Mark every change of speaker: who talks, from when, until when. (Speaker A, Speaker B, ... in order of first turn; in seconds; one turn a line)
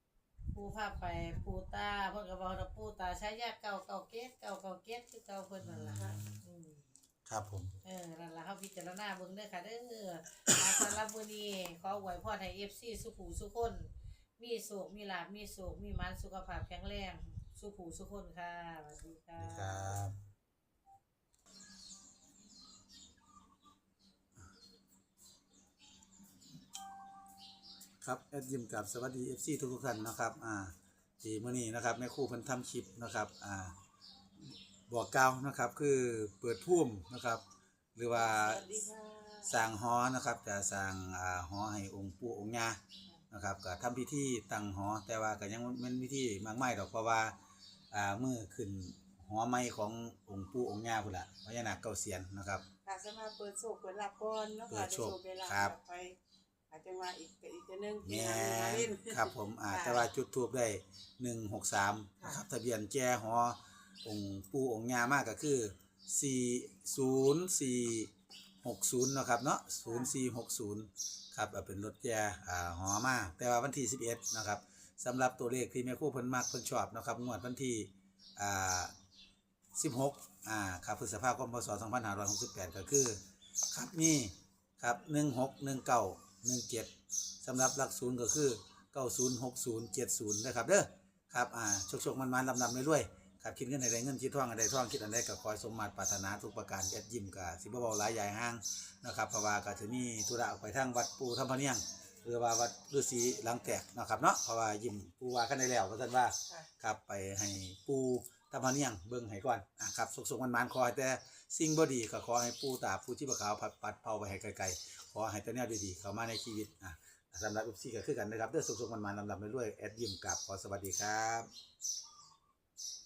Speaker A: 0.5-6.8
Speaker B: 5.6-6.4
Speaker C: 5.9-6.2
Speaker B: 7.2-7.8
Speaker A: 7.8-20.0
Speaker B: 19.4-20.2
Speaker B: 28.0-33.8
Speaker B: 34.9-37.4
Speaker B: 38.0-38.7
Speaker C: 38.1-39.6
Speaker B: 39.4-42.8
Speaker B: 43.3-47.4
Speaker B: 47.9-52.6
Speaker C: 52.8-56.2
Speaker B: 54.7-55.7
Speaker C: 56.7-60.1
Speaker B: 58.0-68.1
Speaker B: 68.6-78.9
Speaker C: 69.8-70.1
Speaker B: 79.7-83.2
Speaker B: 83.7-121.5